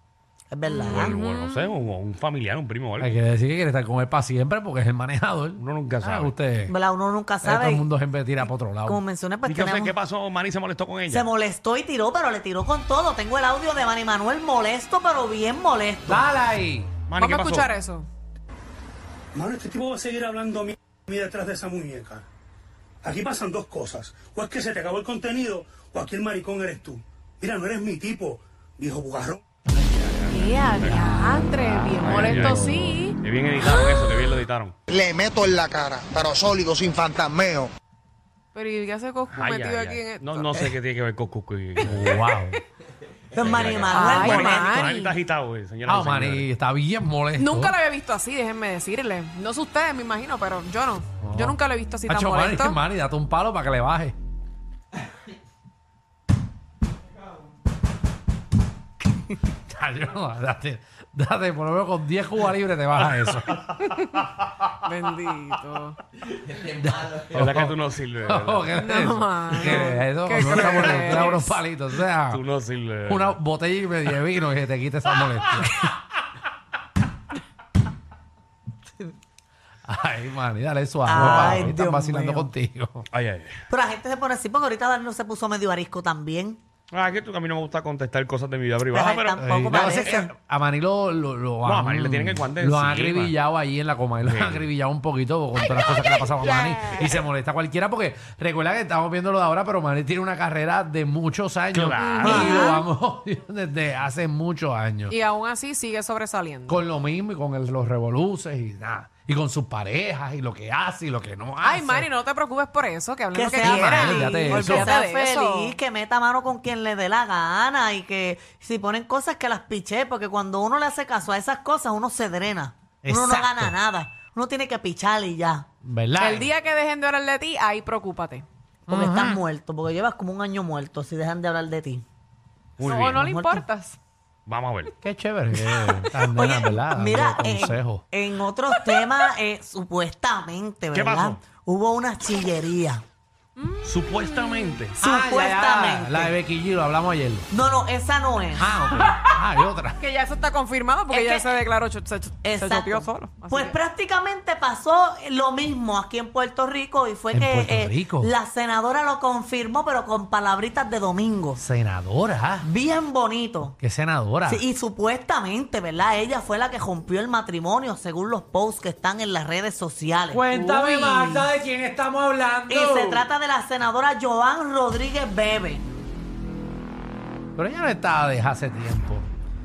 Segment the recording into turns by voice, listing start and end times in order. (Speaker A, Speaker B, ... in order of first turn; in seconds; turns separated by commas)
Speaker A: 0.5-1.1, Speaker B: 0.7-1.8, Speaker C: 0.8-3.1, Speaker D: 3.0-6.8, Speaker C: 5.6-6.3, Speaker A: 6.7-7.8, Speaker D: 7.4-9.0, Speaker A: 8.8-9.9, Speaker C: 9.4-11.3, Speaker A: 11.1-16.2, Speaker D: 16.1-16.9, Speaker C: 17.1-17.7, Speaker B: 17.2-18.1, Speaker E: 19.3-22.2, Speaker E: 23.0-29.4, Speaker C: 29.8-31.1, Speaker B: 30.3-34.3, Speaker D: 30.9-33.0, Speaker C: 32.0-34.7, Speaker F: 34.9-37.7, Speaker B: 38.5-40.7, Speaker C: 39.3-42.1, Speaker D: 41.8-42.6, Speaker A: 43.3-44.7, Speaker C: 43.4-46.5, Speaker B: 43.9-45.1, Speaker D: 45.8-47.8, Speaker B: 47.4-52.8, Speaker D: 51.2-54.1, Speaker D: 59.5-63.6, Speaker C: 63.2-63.6, Speaker B: 63.9-64.2, Speaker B: 64.8-66.0, Speaker D: 66.6-72.4, Speaker C: 67.2-68.8, Speaker B: 68.7-71.5, Speaker C: 70.3-71.4, Speaker C: 72.3-73.4, Speaker D: 73.0-75.9, Speaker D: 79.8-83.0, Speaker A: 81.0-82.5, Speaker C: 81.1-81.8, Speaker C: 83.1-83.5, Speaker A: 83.7-86.6, Speaker C: 86.9-90.1, Speaker A: 88.9-90.3, Speaker D: 89.4-105.2, Speaker C: 91.6-93.4, Speaker C: 94.2-94.7, Speaker C: 101.7-102.6, Speaker B: 102.0-102.8, Speaker A: 102.2-102.7, Speaker B: 105.1-106.8, Speaker D: 106.7-112.1, Speaker B: 111.6-115.8, Speaker A: 113.3-125.7, Speaker D: 113.6-114.9, Speaker D: 123.0-123.7, Speaker D: 125.8-126.5, Speaker B: 126.2-128.4, Speaker D: 128.9-129.4, Speaker A: 128.9-132.0, Speaker C: 132.8-133.2, Speaker B: 132.8-134.0, Speaker A: 133.1-133.6, Speaker C: 134.4-134.9, Speaker D: 135.0-138.0, Speaker A: 136.2-143.0, Speaker C: 140.9-141.4, Speaker B: 143.6-144.9, Speaker C: 143.8-145.0, Speaker D: 145.0-147.5, Speaker A: 145.0-146.3, Speaker A: 147.5-148.7, Speaker D: 148.6-150.0, Speaker B: 148.8-153.8, Speaker A: 151.1-151.5, Speaker A: 152.4-161.6, Speaker D: 157.3-158.3, Speaker D: 161.6-162.7, Speaker A: 162.6-163.8, Speaker D: 163.8-164.6, Speaker A: 164.4-170.5, Speaker D: 170.3-173.3, Speaker B: 170.5-171.5, Speaker A: 172.7-175.8, Speaker D: 177.6-179.3